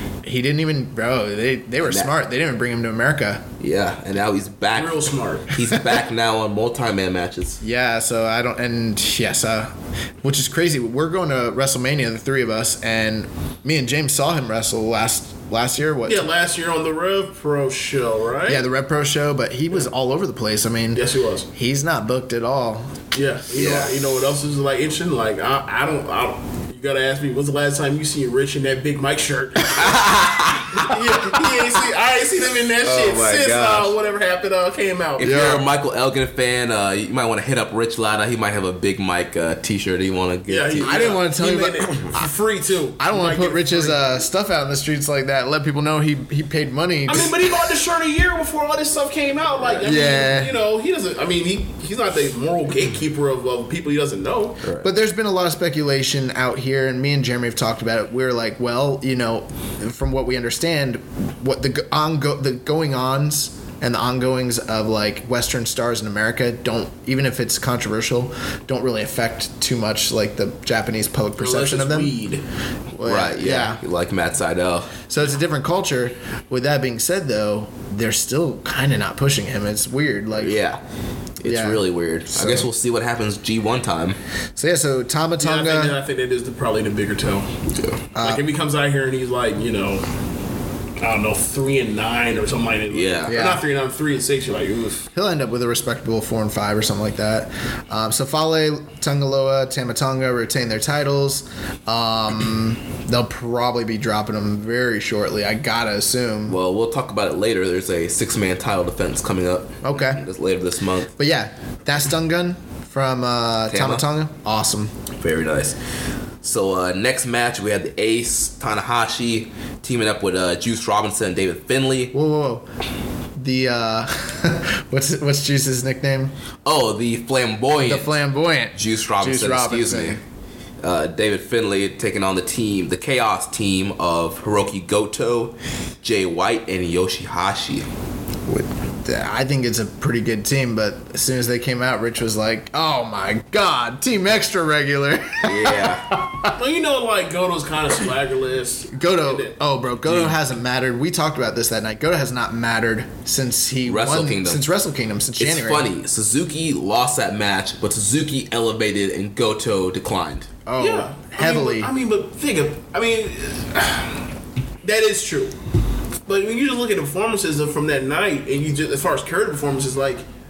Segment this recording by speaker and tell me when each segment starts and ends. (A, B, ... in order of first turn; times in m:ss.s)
0:00.2-0:03.5 A
0:03.6-0:07.6 B
0:04.7-0:05.5 C
0:07.6-0:16.3 A
0:16.0-0:18.6 C
0:18.4-0:23.0 A
0:20.9-0:21.5 C
0:23.1-0:30.0 C
0:23.5-0:24.0 B
0:29.8-0:30.9 B
0:30.7-0:35.3 C
0:32.8-0:33.9 B
0:35.2-0:41.1 B
0:35.2-0:35.6 A
0:40.5-0:44.0 C
0:40.8-0:42.3 A
0:43.0-0:47.5 A
0:47.1-0:54.6 C
0:49.8-0:50.5 A
0:54.6-0:54.9 B
0:54.8-1:12.2 A
1:11.4-1:12.4 C
1:12.9-1:13.8 A
1:13.0-1:15.0 B
1:15.1-1:20.6 A
1:20.4-1:20.8 B
1:21.4-1:24.2 B
1:21.4-1:22.7 A
1:24.6-1:26.0 A
1:25.4-1:27.5 C
1:28.1-1:28.4 A
1:28.2-1:30.1 C
1:31.0-1:35.1 C
1:32.9-1:33.4 B
1:33.3-1:33.6 A
1:35.1-1:46.6 A
1:46.5-1:51.1 B
1:49.8-1:50.2 A
1:51.2-1:54.9 A
1:53.7-1:54.0 B
1:55.2-1:55.8 B
1:56.4-2:02.1 B
2:02.1-2:02.6 A
2:03.4-2:06.3 A
2:06.6-2:08.2 B
2:07.8-2:10.2 A
2:08.7-2:10.2 B
2:10.8-2:17.8 B
2:18.5-2:26.5 A
2:25.4-2:26.1 B
2:26.5-2:29.6 C
2:28.9-2:35.9 A
2:30.0-2:30.4 B
2:33.8-2:34.6 B
2:35.4-2:40.5 B
2:40.6-2:41.9 A
2:40.8-2:44.2 C
2:44.8-2:45.6 C
2:46.2-2:50.2 C